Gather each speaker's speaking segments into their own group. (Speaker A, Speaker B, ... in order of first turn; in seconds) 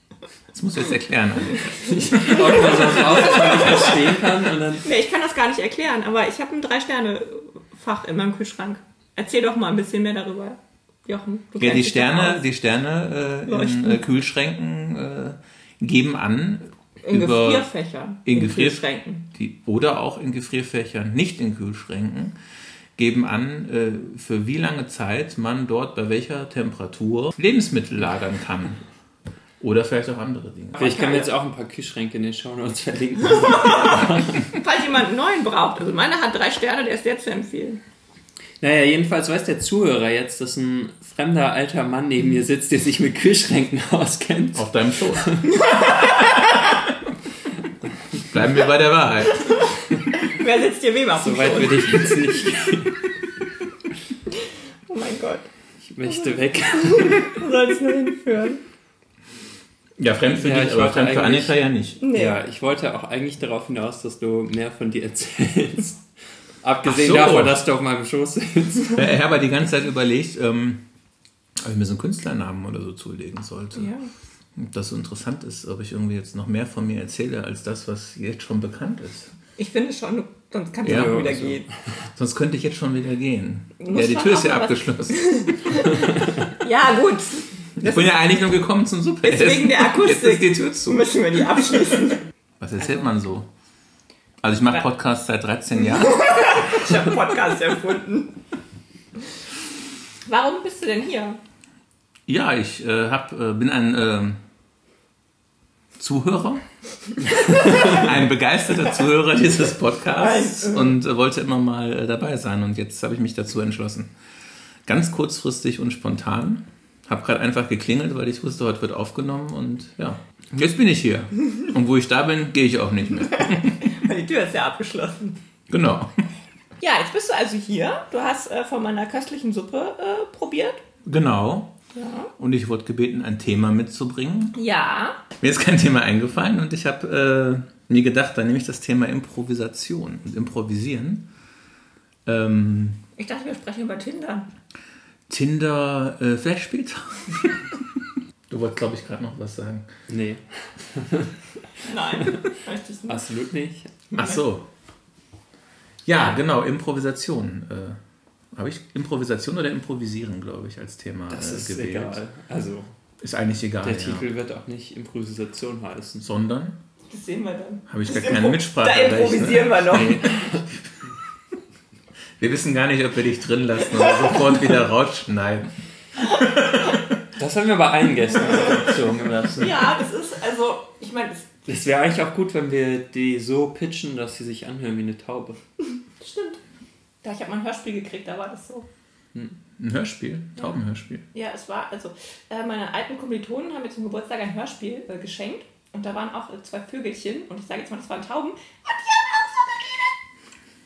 Speaker A: 0.5-3.7, 11.6-17.7, 18.2-22.4, 23.0-28.8, 29.6-30.9, 44.5-45.3, 48.2-49.6, 60.0-62.0, 66.8-67.6, 68.9-70.8, 71.6-73.9, 74.5-79.3, 80.8-81.3, 82.1-85.8, 87.8-92.0, 92.6-93.5, 94.4-96.8, 102.3-104.4, 106.0-106.6, 107.5-114.1, 114.8-123.8, 125.7-126.1, 131.0-131.7, 132.4-134.6, 135.4-141.3, 142.2-143.0, 145.3-147.8, 148.5-149.9, 154.1-154.7, 156.1-158.0, 158.5-162.2, 163.2-164.2, 166.2-166.8, 167.9-170.3, 172.4-177.2, 189.8-191.2
Speaker B: 1.9-4.9, 30.8-34.5, 38.6-45.6, 51.2-53.0, 55.8-57.5, 60.4-61.6, 62.1-66.0, 66.6-69.1, 80.8-81.7, 150.1-151.3, 153.1-154.1, 161.3-162.9, 163.8-166.2, 169.9-170.6, 177.3-179.9, 181.7-185.6
Speaker C: 2.1-3.9, 4.8-12.4, 13.4-14.0, 17.0-19.2, 30.8-31.3, 33.5-37.8, 45.4-46.8, 49.5-52.1, 54.9-55.5, 56.7-58.6, 62.0-62.4, 73.7-74.1, 79.6-81.7, 83.8-88.1, 89.2-92.2, 92.8-93.1, 95.8-98.3, 100.2-101.4, 107.5-108.0, 110.1-111.0, 123.3-125.4, 126.8-130.8, 131.9-132.3, 134.5-135.2, 143.2-144.5, 151.8-153.3, 154.1-154.4, 167.1-170.3, 173.9-174.6, 179.6-181.5, 186.2-186.6, 187.2-188.9, 191.3-200.2